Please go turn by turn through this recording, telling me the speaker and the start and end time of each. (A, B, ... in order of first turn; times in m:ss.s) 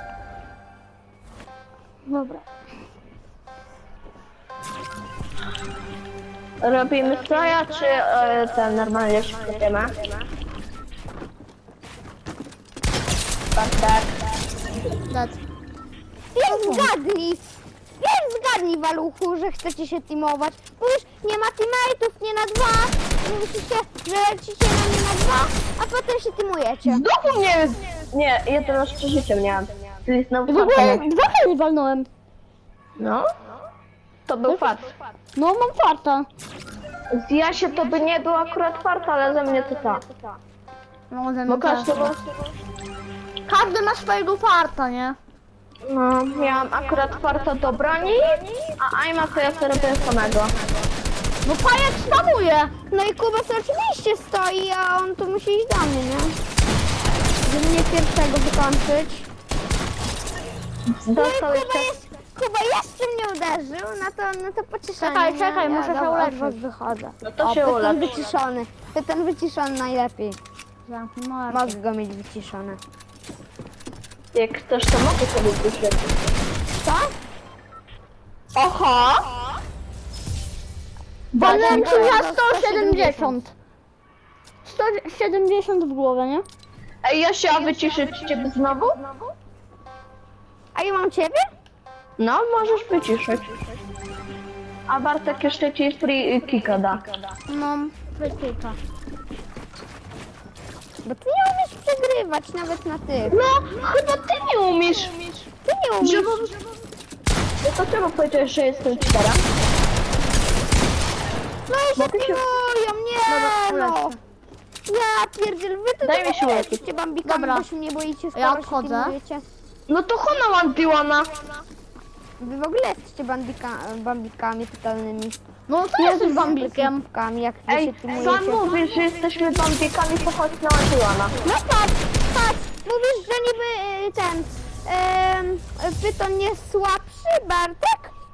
0:02.1-0:02.4 A
0:06.6-0:10.0 B
0:13.5-0:14.2 B
0:15.1-0:15.4 A
0:16.3-0:27.0 C
0:16.5-0:16.9 B
0:26.8-0:31.0 B
0:30.5-0:32.1 A
0:33.0-0:33.2 B
0:34.3-0:34.9 B
0:34.5-0:34.8 A
0:35.3-0:36.3 A
0:37.1-0:40.0 B
0:39.6-0:40.4 C
0:41.1-0:42.2 A
0:41.5-0:42.2 B
0:43.4-0:45.2 A
0:45.8-0:50.6 B
0:51.4-0:52.7 A
0:52.9-0:56.4 C
0:57.4-0:59.3 C
1:01.0-1:02.0 B
1:01.1-1:10.4 C
1:04.9-1:06.6 A
1:07.2-1:08.1 B
1:10.8-1:11.8 A
1:11.5-1:12.8 C
1:14.3-1:16.3 B
1:16.8-1:17.1 C
1:18.6-1:19.2 B
1:21.3-1:22.2 B
1:21.4-1:23.5 A
1:21.4-1:23.4 C
1:24.6-1:26.4 A
1:27.0-1:29.0 B
1:30.7-1:31.5 C
1:32.2-1:33.5 B
1:34.9-1:37.0 B
1:37.5-1:38.8 A
1:41.0-1:43.4 C
1:43.3-1:45.5 B
1:45.6-1:46.5 C
1:46.0-1:46.5 B
1:47.6-1:49.4 B
1:51.7-1:54.2 C
1:52.0-1:52.4 B
1:53.3-1:54.2 A
1:54.9-1:59.4 C
1:56.0-1:56.8 B
1:57.2-1:57.7 A
1:58.3-1:59.1 A
1:59.9-2:01.4 B
2:02.4-2:05.4 C
2:05.7-2:07.0 A
2:05.9-2:08.7 C
2:07.7-2:11.4 B
2:11.4-2:18.1 C